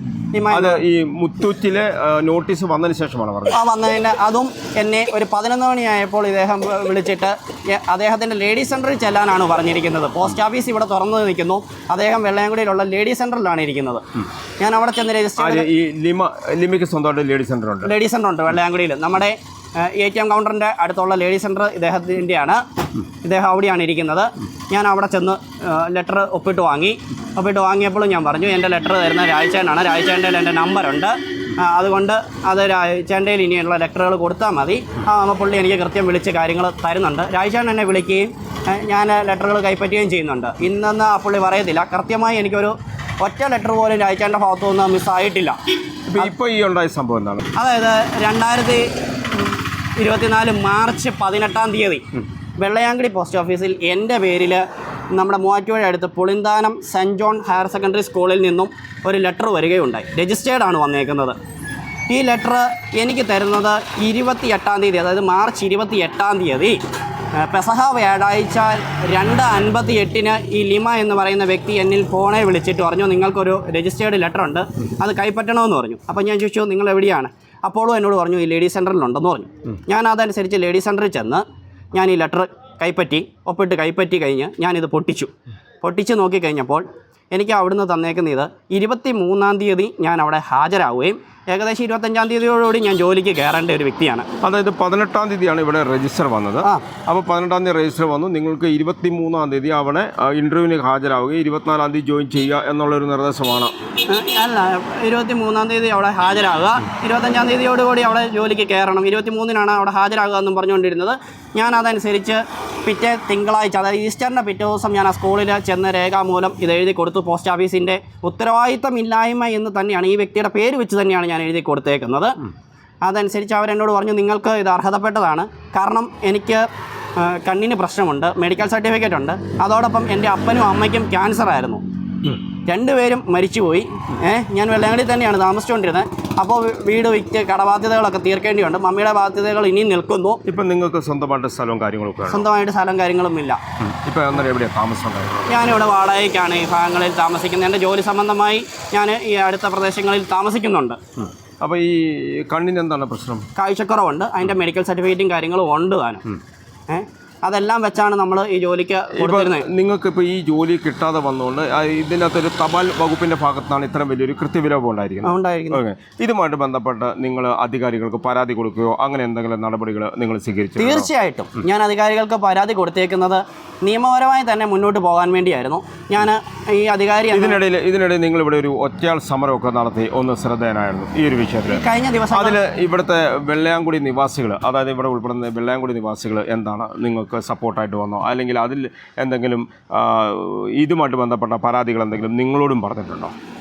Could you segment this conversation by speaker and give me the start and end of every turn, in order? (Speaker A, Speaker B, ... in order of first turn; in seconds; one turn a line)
Speaker A: 0.3-0.8
Speaker B: 0.5-3.6
Speaker A: 3.5-14.0
Speaker A: 14.6-15.7
Speaker B: 15.4-17.9
Speaker A: 17.8-22.6
Speaker A: 23.2-45.6
Speaker B: 46.1-47.4
Speaker A: 47.5-54.6
Speaker A: 55.1-61.4
Speaker A: 62.1-66.8
Speaker A: 67.3-94.3
Speaker B: 94.4-103.7
Speaker A: 104.1-122.3
Speaker A: 123.0-131.8
Speaker A: 132.7-140.4
Speaker B: 140.4-142.5
Speaker A: 142.3-143.6
Speaker B: 143.8-145.5
Speaker A: 145.5-151.0
Speaker B: 151.6-153.4
Speaker A: 153.6-156.3
Speaker A: 156.9-159.7
Speaker B: 159.1-171.1
Speaker A: 165.2-165.8
Speaker A: 170.8-177.6
Speaker B: 177.3-193.3
Speaker A: 181.7-182.6